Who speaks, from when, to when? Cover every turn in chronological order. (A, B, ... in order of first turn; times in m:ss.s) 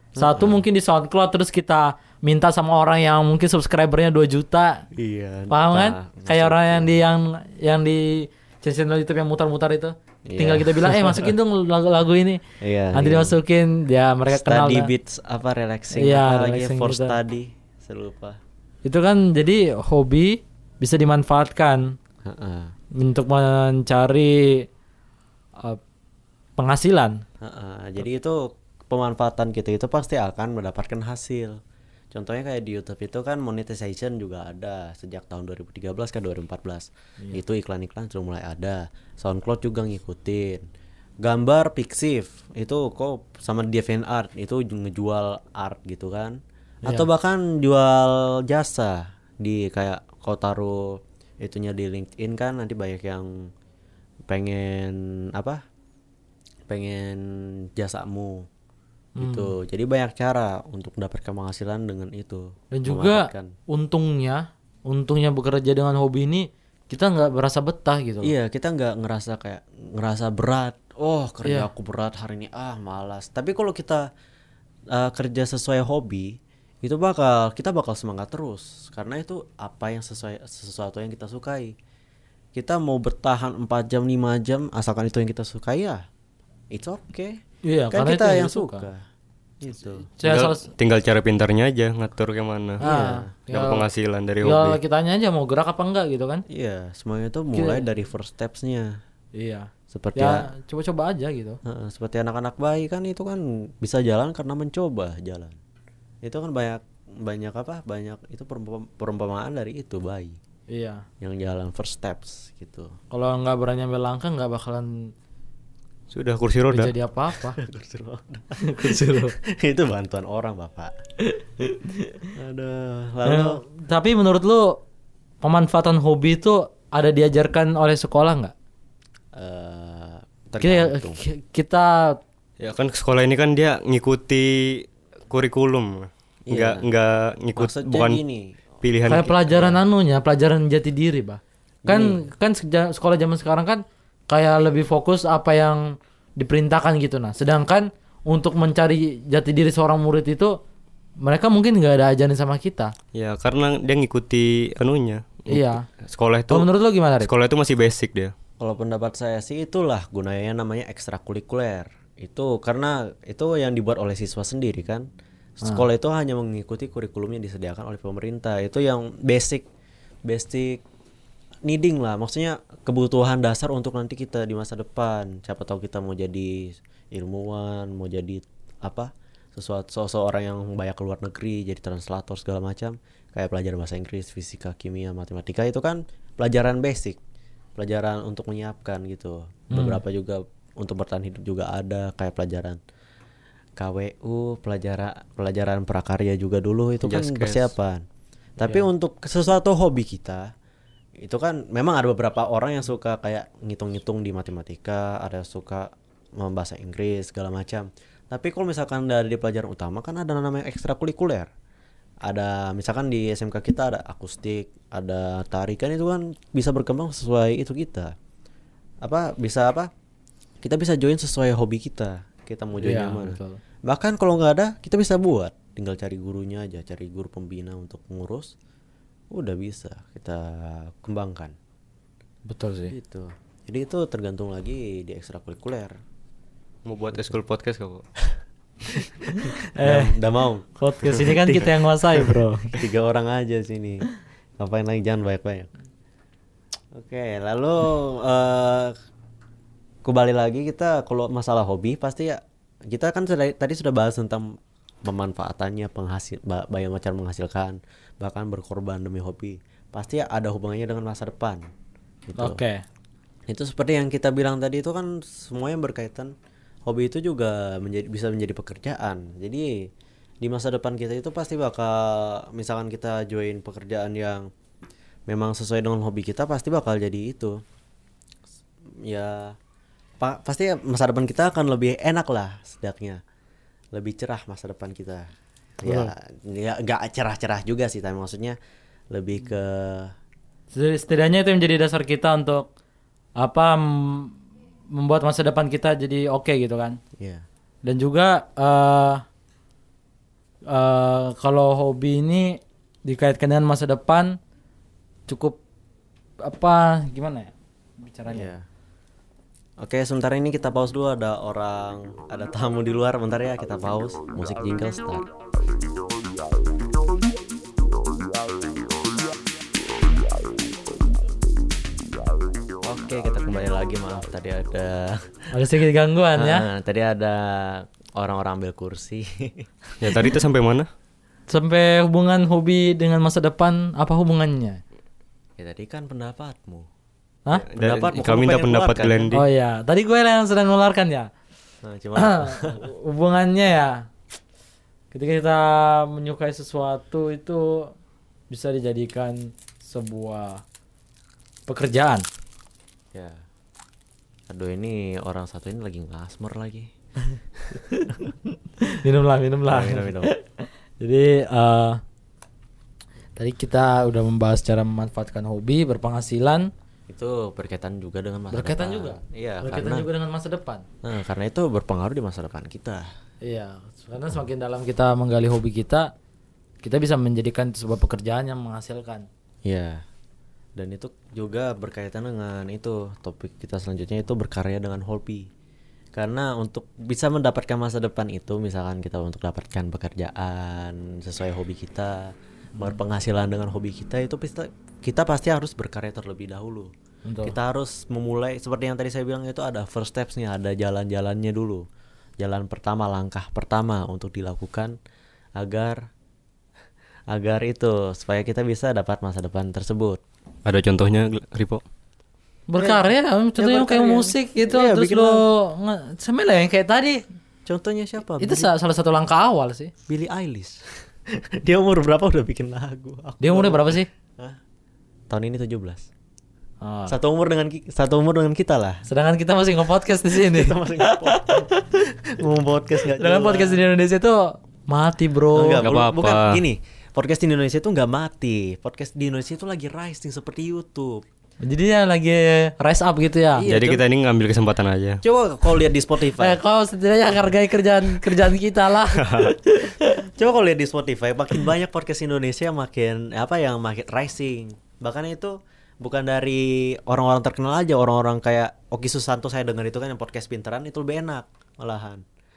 0:00.2-0:00.6 A
0:00.2-0:04.8 B
0:04.9-0:07.0 A
0:05.5-0:12.4 B
0:10.3-0:11.3 A
0:12.6-0:13.4 A
0:12.9-0:14.9 B
0:14.3-0:18.4 A
0:15.9-0:17.2 B
0:18.8-0:22.0 B
0:22.2-0:22.7 A
0:23.0-0:24.7 B
0:26.6-0:27.2 B
0:27.4-0:31.6 A
0:32.1-0:40.6 A
0:41.2-0:53.5 A
0:54.3-0:55.6 A
0:56.7-0:58.5 A
0:59.2-0:59.5 B
0:59.2-1:03.5 A
1:02.7-1:08.3 B
1:08.2-1:14.1 A
1:14.9-1:21.8 A
1:22.5-1:26.0 A
1:26.7-1:29.0 A
1:27.6-1:28.9 B
1:29.6-1:30.1 A
1:30.2-1:30.7 B
1:30.2-1:32.8 C
1:32.8-1:33.3 A
1:32.8-1:33.8 B
1:33.5-1:34.8 C
1:34.4-1:36.4 B
1:36.5-1:39.0 A
1:37.6-1:37.8 B
1:39.4-1:41.6 B
1:39.9-1:40.5 A
1:41.6-1:45.6 A
1:46.2-1:50.4 A
1:50.7-1:51.0 B
1:51.2-1:53.0 A
1:53.1-1:55.1 B
1:56.1-1:56.9 C
1:56.7-1:57.6 B
1:57.6-2:00.9 A
1:58.6-1:59.4 B
2:01.3-2:02.2 B
2:02.3-2:03.6 A
2:03.2-2:04.8 B
2:05.4-2:08.5 B
2:09.4-2:11.2 A
2:10.6-2:12.2 B
2:12.6-2:18.2 C
2:16.5-2:16.8 A
2:17.6-2:18.6 A
2:18.8-2:19.4 C
2:19.1-2:30.6 B
2:19.2-2:19.8 A
2:21.8-2:22.2 A
2:31.2-2:32.9 B
2:33.1-2:36.7 C
2:35.5-2:35.8 B
2:36.5-2:37.3 B
2:37.2-2:38.3 C
2:38.6-2:45.1 A
2:45.6-2:49.7 A
2:50.3-2:50.8 A
2:51.6-3:07.2 A
3:07.8-3:12.8 A
3:09.7-3:10.0 B
3:13.8-3:18.0 A
3:17.0-3:17.7 C
3:18.6-3:20.5 A
3:18.6-3:18.8 B
3:21.2-3:31.5 A
3:32.2-3:38.2 A
3:39.0-3:39.9 A
3:40.6-3:48.5 A
3:42.8-3:43.6 B
3:49.3-3:51.6 A
3:52.5-3:53.0 B
3:52.9-3:56.0 A
3:56.9-3:58.0 C
3:58.9-4:04.0 A
3:59.2-4:00.2 B
4:00.8-4:02.8 B
4:04.6-4:05.7 A
4:07.0-4:08.9 A
4:10.0-4:21.6 A
4:22.3-4:22.6 A
4:22.4-4:22.8 B
4:23.5-4:26.3 A
4:26.9-4:29.9 A
4:30.4-4:34.5 A
4:35.3-4:37.6 A
4:39.0-4:39.6 A
4:40.2-4:43.2 A
4:43.9-4:45.3 A
4:45.8-4:48.6 A
4:45.8-4:46.1 B
4:49.1-4:50.1 A
4:50.7-4:52.7 B
4:53.4-4:54.4 B
4:54.9-4:57.0 B
4:57.2-4:57.4 A
4:57.8-4:59.2 B
5:00.7-5:04.4 B
5:05.3-5:05.6 B
5:06.4-5:08.5 B
5:08.3-5:08.6 A
5:09.8-5:15.3 A
5:22.8-5:25.4 A
5:25.5-5:26.7 B
5:26.4-5:30.2 A
5:30.0-5:30.9 C
5:31.5-5:34.8 B
5:35.6-5:36.9 A
5:37.5-5:39.4 C
5:37.8-5:39.3 A
5:39.3-5:41.3 B
5:41.8-5:42.9 A
5:42.2-5:44.1 B
5:45.1-5:47.9 B
5:48.5-5:50.6 B
5:51.7-5:52.3 B
5:53.1-5:53.4 A
5:54.5-5:56.9 A
5:57.8-5:58.2 B
5:58.8-6:02.0 B
5:59.7-6:00.3 A
6:03.4-6:06.7 B
6:07.1-6:10.1 A
6:08.5-6:10.8 B
6:11.0-6:13.1 A
6:13.4-6:16.1 B
6:16.8-6:19.3 B
6:19.6-6:20.0 A
6:20.8-6:25.5 A
6:26.2-6:36.9 A
6:37.3-6:37.6 B
6:37.4-6:41.9 A
6:42.4-6:45.0 A
6:45.6-6:46.0 A
6:47.3-6:50.2 A
6:50.6-6:51.8 C
6:52.7-6:57.2 B
6:52.8-6:53.0 A
6:53.6-6:55.4 A
6:57.7-6:58.7 A
6:58.4-6:59.9 B
7:00.1-7:04.6 A
7:03.4-7:04.1 B
7:05.3-7:06.1 A
7:06.8-7:07.2 B
7:07.1-7:09.0 A
7:09.1-7:11.7 B
7:10.3-7:13.8 A
7:13.2-7:15.8 B
7:15.6-7:21.2 A
7:15.8-7:16.6 C
7:21.6-7:23.6 B
7:23.6-7:24.0 A
7:23.6-7:25.2 C
7:25.2-7:26.6 A
7:26.4-7:30.1 B
7:29.2-7:29.5 C
7:30.3-7:42.2 A